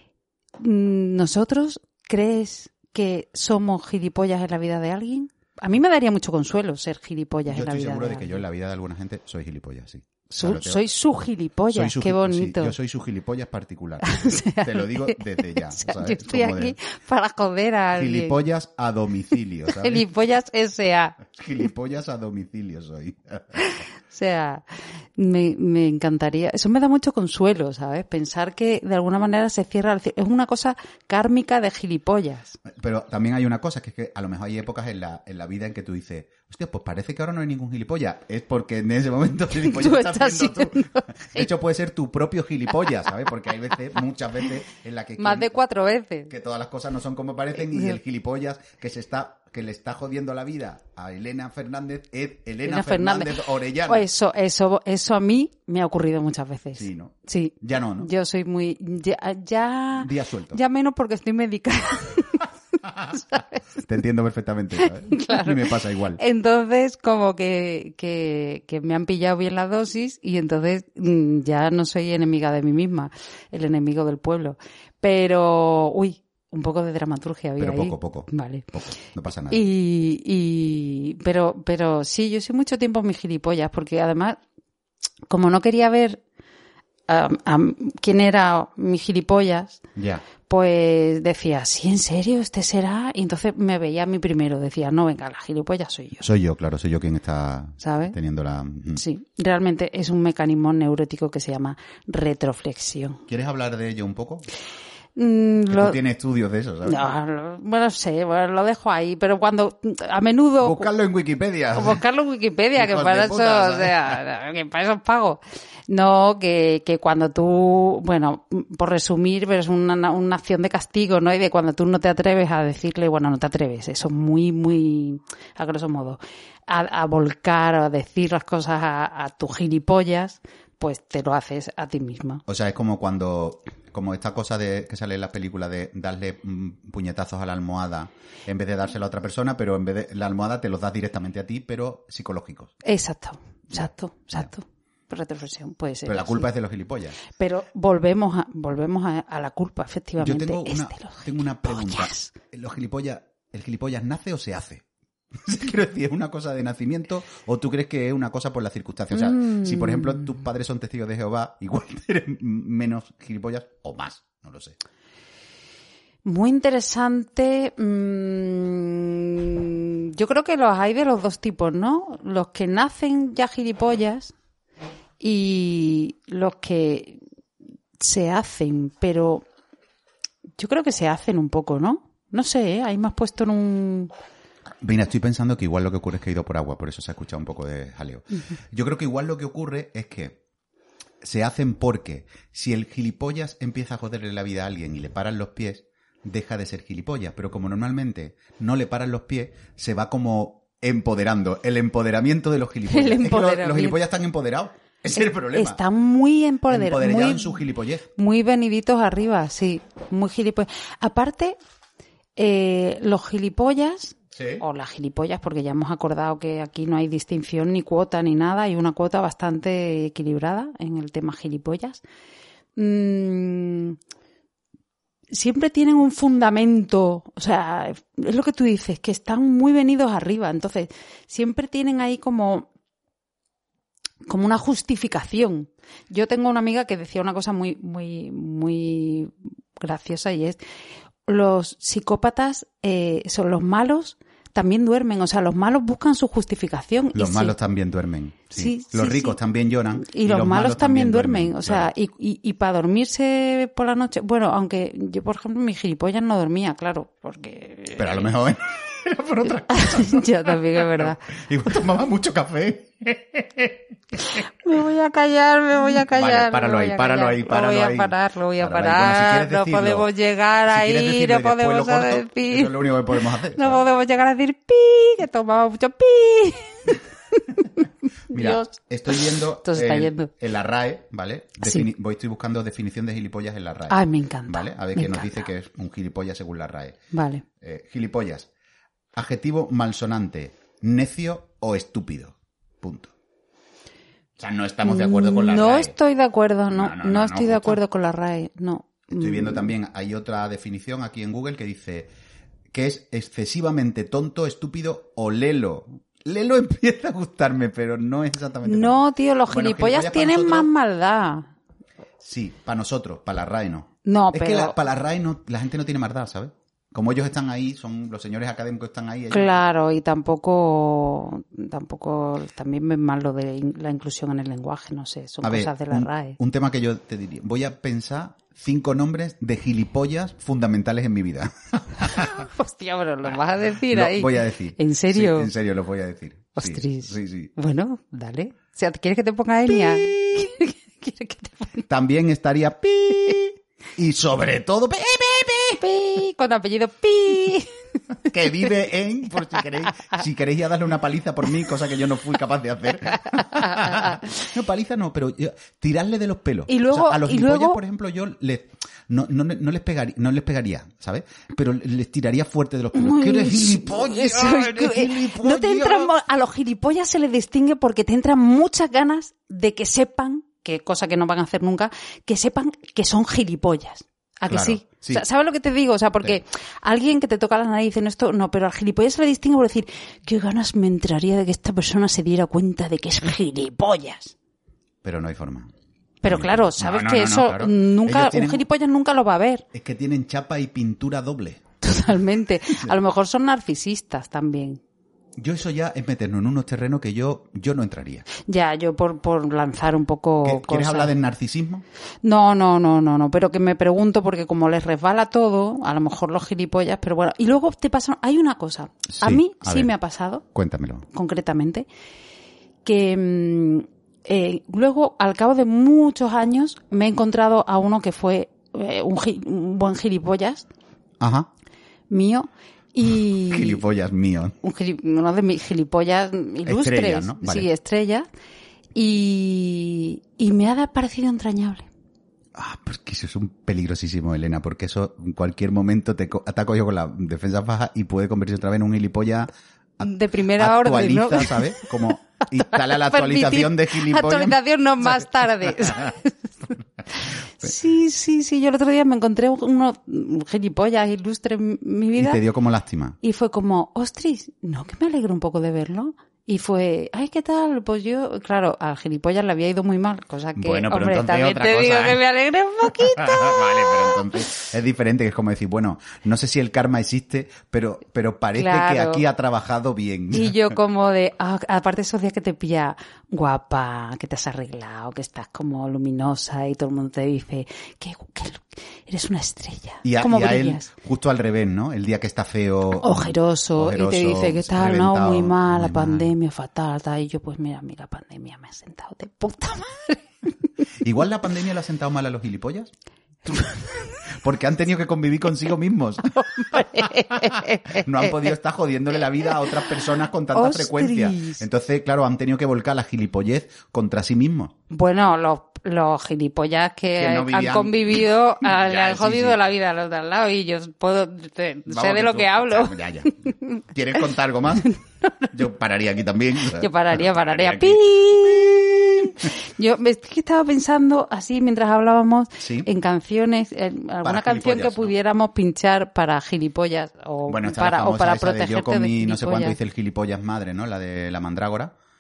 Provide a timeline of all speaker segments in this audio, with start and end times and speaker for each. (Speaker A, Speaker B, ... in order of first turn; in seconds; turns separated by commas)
Speaker A: 0.6-8.4, Speaker B: 7.5-10.9, Speaker A: 10.4-12.8, Speaker B: 11.7-16.8, Speaker A: 14.0-18.4, Speaker B: 17.9-20.1, Speaker A: 19.7-21.2, Speaker B: 21.3-23.7, Speaker A: 23.6-32.6, Speaker B: 32.7-45.5, Speaker A: 39.5-41.5, Speaker A: 45.2-46.3, Speaker B: 46.3-54.1, Speaker A: 47.7-48.0, Speaker A: 52.6-62.5, Speaker B: 56.8-58.1, Speaker B: 60.0-60.6, Speaker A: 63.0-63.7, Speaker B: 63.9-66.2, Speaker A: 64.8-65.7, Speaker A: 66.2-78.7, Speaker B: 77.6-79.6, Speaker A: 79.5-84.4, Speaker A: 85.3-86.2, Speaker A: 87.1-89.8, Speaker B: 90.0-90.2, Speaker A: 90.5-96.3, Speaker B: 96.2-99.0, Speaker A: 97.8-98.2, Speaker A: 99.0-103.2, Speaker B: 103.3-104.5, Speaker A: 105.2-106.0, Speaker B: 105.7-107.1, Speaker A: 106.8-110.9, Speaker B: 110.6-112.0, Speaker A: 111.7-132.4, Speaker B: 112.8-114.2, Speaker B: 132.5-142.7, Speaker A: 142.8-146.5, Speaker B: 143.7-144.5, Speaker B: 146.1-147.2, Speaker A: 147.3-152.3, Speaker B: 150.2-164.8, Speaker A: 159.1-160.3, Speaker A: 166.2-174.3, Speaker A: 175.2-177.2, Speaker A: 178.0-179.4, Speaker A: 180.6-184.1, Speaker B: 184.8-190.4, Speaker B: 191.2-205.8, Speaker A: 202.9-204.0, Speaker A: 205.2-207.6, Speaker B: 206.7-208.1, Speaker A: 208.2-211.6, Speaker A: 212.4-222.0, Speaker B: 214.3-214.6, Speaker A: 222.8-224.0, Speaker A: 225.3-232.7, Speaker A: 234.3-240.6, Speaker A: 241.2-247.6, Speaker B: 247.1-251.9, Speaker A: 248.5-249.4, Speaker A: 250.0-258.3, Speaker B: 258.0-264.4, Speaker A: 259.7-261.2, Speaker A: 264.6-272.9, Speaker B: 265.9-270.1, Speaker B: 270.7-273.8, Speaker A: 273.5-280.3, Speaker B: 278.3-287.0, Speaker A: 281.6-281.9, Speaker A: 283.9-285.4, Speaker A: 287.1-287.4, Speaker B: 287.6-288.5, Speaker B: 289.1-293.1, Speaker B: 294.4-296.0, Speaker A: 294.8-299.7, Speaker B: 296.7-297.8, Speaker B: 299.1-302.1, Speaker B: 302.7-310.7, Speaker A: 308.6-311.5, Speaker B: 312.2-319.6, Speaker A: 314.1-314.8, Speaker A: 319.3-326.4, Speaker B: 325.4-332.5, Speaker A: 332.1-335.5, Speaker B: 333.3-337.5, Speaker A: 336.6-341.9, Speaker B: 339.7-340.5, Speaker B: 341.9-345.8, Speaker A: 345.8-347.8, Speaker B: 348.3-366.1, Speaker A: 356.7-357.8, Speaker A: 362.9-384.4, Speaker B: 374.5-375.2, Speaker B: 385.0-385.7, Speaker A: 386.2-389.6, Speaker B: 386.2-388.6, Speaker B: 389.7-391.8, Speaker A: 391.8-394.8, Speaker B: 395.4-398.3, Speaker A: 398.4-401.1, Speaker B: 400.4-401.9, Speaker A: 402.2-410.4, Speaker B: 409.1-409.9, Speaker B: 410.5-411.1, Speaker A: 411.1-411.9, Speaker A: 412.9-420.7, Speaker B: 421.2-421.5, Speaker A: 422.1-423.8, Speaker B: 423.5-424.6, Speaker A: 424.6-428.3, Speaker B: 426.6-427.7, Speaker A: 428.9-431.9, Speaker B: 432.6-446.1, Speaker A: 440.0-441.9, Speaker A: 442.6-446.4, Speaker A: 447.6-452.4, Speaker B: 452.2-453.2, Speaker A: 453.2-464.4, Speaker B: 460.6-462.2, Speaker B: 462.9-470.6, Speaker A: 468.6-469.2, Speaker A: 470.3-480.9, Speaker B: 480.0-486.3, Speaker A: 482.9-490.3, Speaker B: 491.0-492.9, Speaker A: 493.5-494.1, Speaker B: 494.3-504.8, Speaker A: 496.3-498.5, Speaker A: 500.5-501.6, Speaker A: 504.9-513.8, Speaker B: 507.2-509.7, Speaker B: 511.9-514.9, Speaker A: 514.9-515.5, Speaker B: 515.5-519.5, Speaker A: 516.7-529.8, Speaker B: 522.6-522.9, Speaker B: 524.2-525.1, Speaker B: 527.5-531.9